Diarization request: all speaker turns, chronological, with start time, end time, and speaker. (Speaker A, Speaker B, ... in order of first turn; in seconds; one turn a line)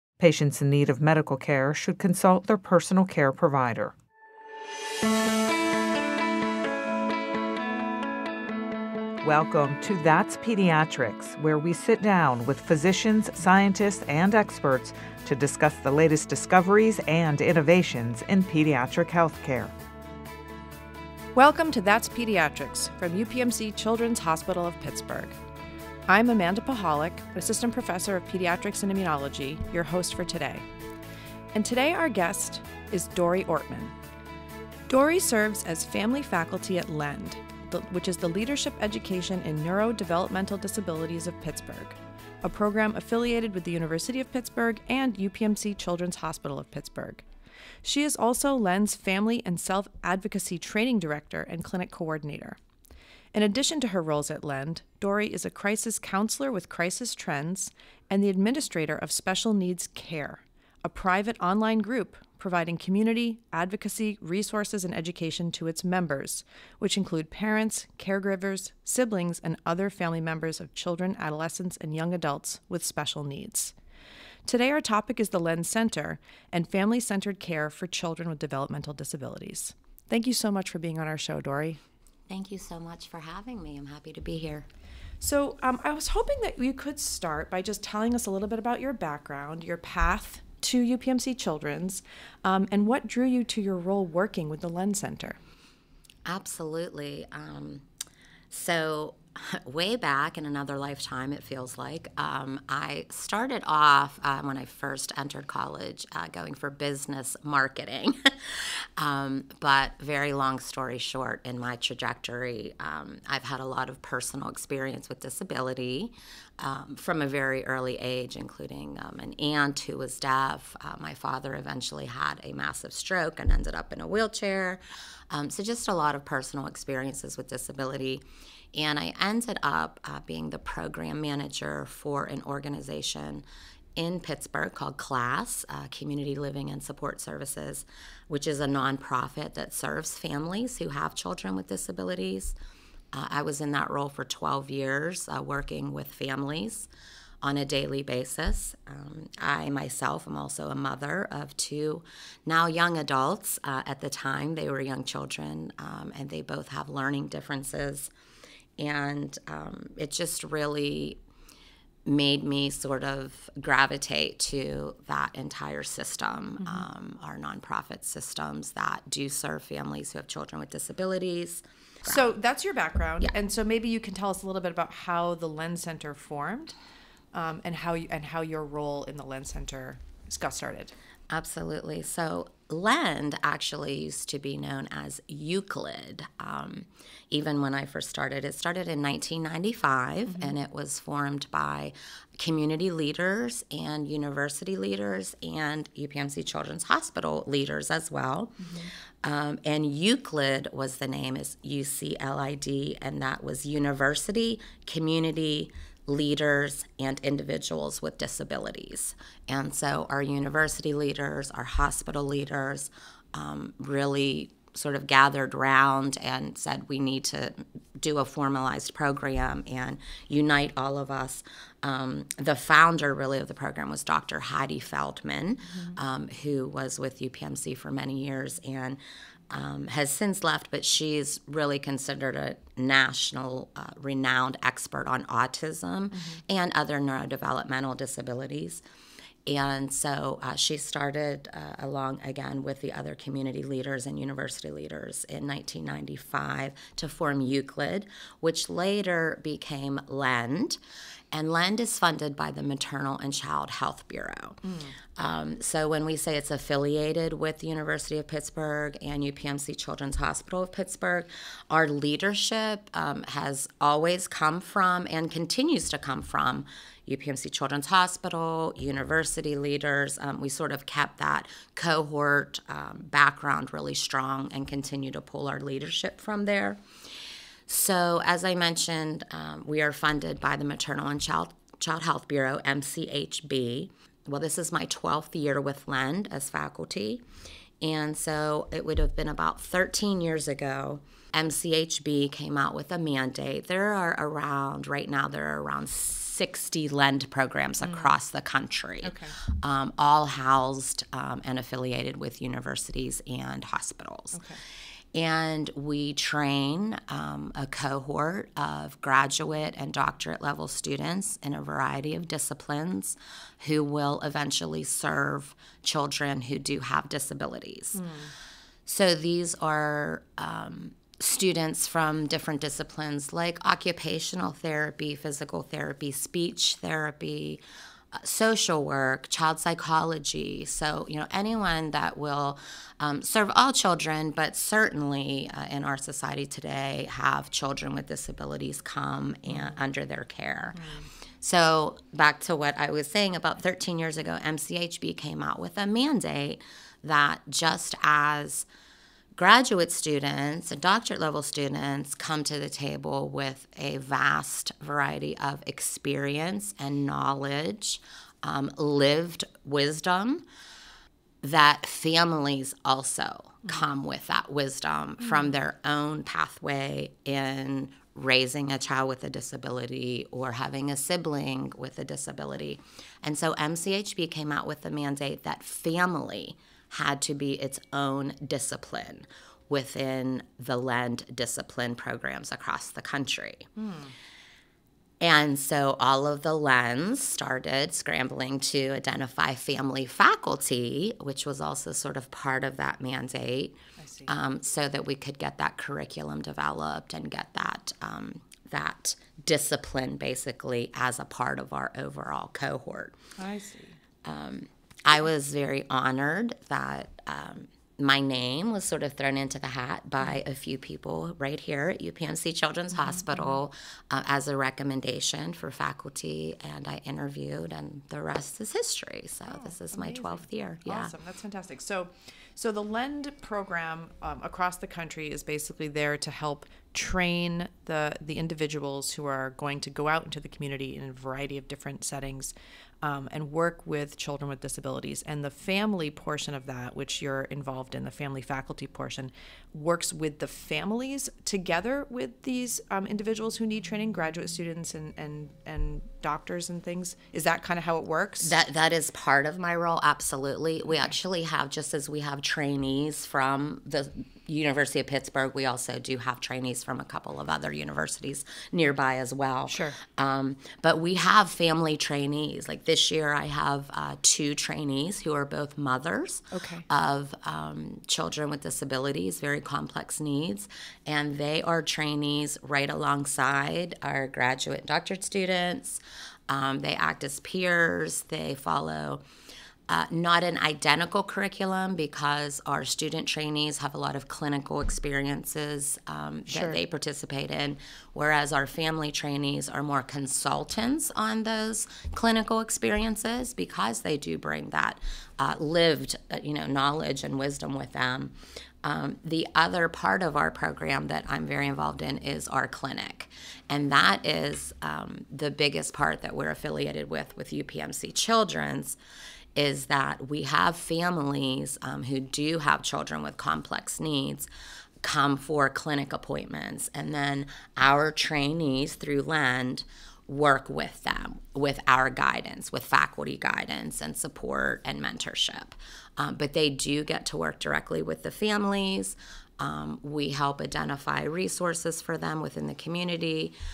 Speaker A: 0.2-3.9
Speaker A: 9.2-19.7
Speaker B: 21.3-25.4
Speaker B: 26.1-30.6
Speaker B: 31.5-33.9
Speaker B: 34.9-47.2
Speaker B: 47.8-52.6
Speaker B: 53.3-73.7
Speaker B: 74.4-81.8
Speaker C: 82.3-84.7
Speaker B: 85.2-95.4
Speaker C: 96.2-97.8
Speaker C: 98.5-133.4
Speaker C: 133.9-142.5
Speaker C: 143.1-146.9
Speaker C: 147.4-158.1
Speaker C: 158.8-161.2
Speaker C: 162.0-172.2
Speaker B: 166.6-166.9
Speaker B: 172.0-176.7
Speaker B: 177.3-180.9
Speaker C: 181.3-198.6
Speaker C: 199.2-238.8
Speaker B: 236.1-236.4
Speaker C: 239.4-250.8
Speaker C: 251.3-254.6
Speaker B: 254.6-255.0
Speaker C: 255.2-276.8
Speaker C: 277.7-287.2
Speaker C: 287.8-304.4
Speaker B: 297.8-298.1
Speaker B: 299.0-299.4
Speaker B: 304.3-304.6
Speaker C: 305.1-318.0
Speaker B: 317.9-318.3
Speaker C: 318.9-327.6
Speaker C: 328.1-340.8
Speaker B: 339.5-339.8
Speaker B: 340.8-341.1
Speaker C: 341.4-348.6
Speaker C: 349.4-360.4
Speaker C: 361.4-383.7
Speaker B: 383.8-384.1
Speaker C: 385.2-403.1
Speaker B: 394.0-394.3
Speaker B: 403.4-404.0
Speaker C: 404.2-421.1
Speaker B: 413.0-413.6
Speaker B: 419.4-448.6
Speaker C: 448.4-479.2
Speaker B: 459.7-460.0
Speaker B: 466.5-466.9
Speaker C: 479.9-509.0
Speaker B: 486.5-486.8
Speaker C: 509.5-514.5
Speaker C: 515.0-533.5